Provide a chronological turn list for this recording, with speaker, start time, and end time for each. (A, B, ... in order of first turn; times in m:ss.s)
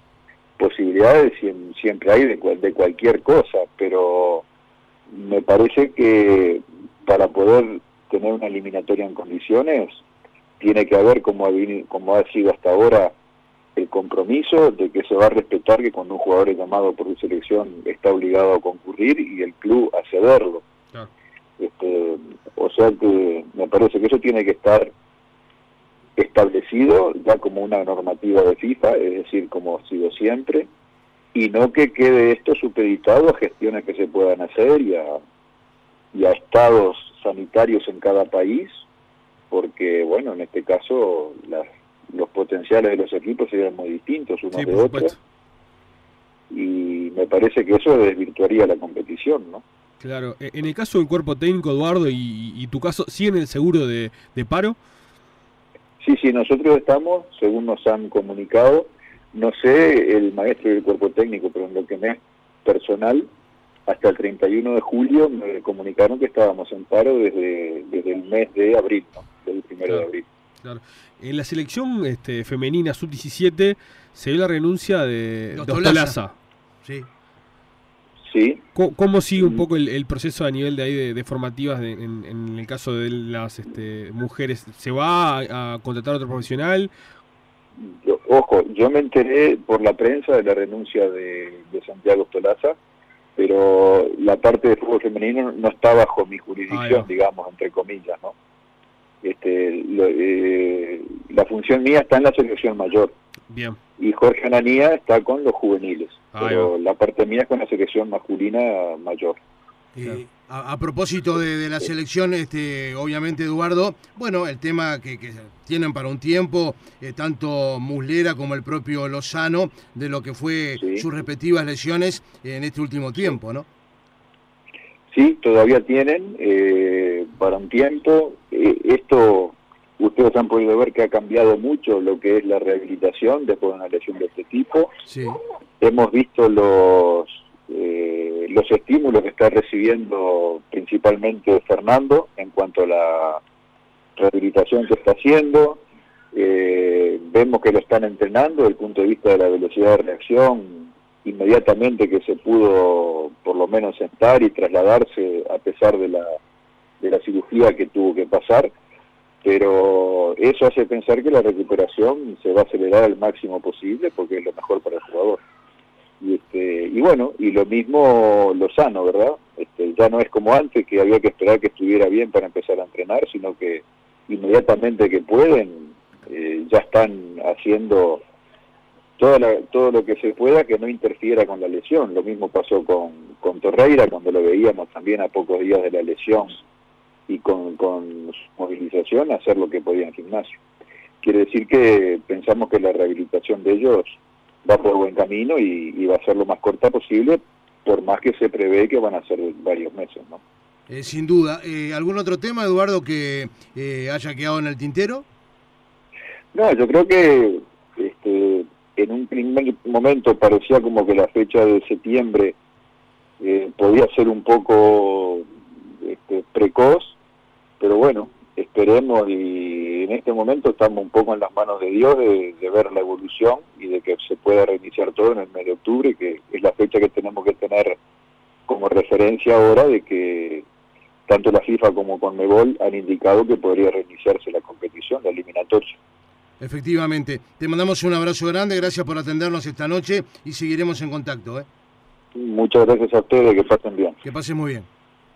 0:00.6-0:04.4 A
0:05.1-0:10.0 A
0:10.6-0:13.1 A
0:13.8-0:20.6 A
0:21.6-0:24.9 A
0:26.2-0:30.7 A
0:31.3-0:35.2 A
0:36.1-0:38.8 A
0:39.5-0:45.1 A
0:44.5-0:45.2 B
0:46.5-0:49.6 A
0:50.0-0:54.8 B
0:56.0-1:03.3 A
1:03.9-1:10.3 A
1:10.6-1:16.3 B
1:15.6-1:16.2 C
1:16.8-1:17.1 C
1:18.2-1:18.6 A
1:18.8-1:26.9 B
1:27.8-1:32.8 A
1:33.4-1:38.4 A
1:36.7-1:37.1 B
1:39.2-1:43.1 A
1:43.5-1:43.8 B
1:44.0-1:49.4 A
1:46.3-1:46.7 B
1:50.0-2:03.7 C
2:00.8-2:01.0 A
2:05.1-2:14.9 A
2:15.1-2:15.4 C
2:15.8-2:23.4 A
2:24.2-2:25.8 A
2:26.3-2:36.4 A
2:37.0-2:38.7 A
2:39.4-2:45.4 A
2:46.2-2:58.2 A
2:59.2-3:06.6 A
3:07.3-3:10.6 A
3:11.2-3:20.4 A
3:20.9-3:25.2 C
3:26.5-3:32.6 A
3:33.4-3:35.4 A
3:36.0-3:37.2 A
3:37.8-3:48.0 A
3:48.7-3:50.7 A
3:51.3-3:56.0 A
3:56.6-4:01.7 C
4:02.4-4:04.2 A
4:04.2-4:04.9 C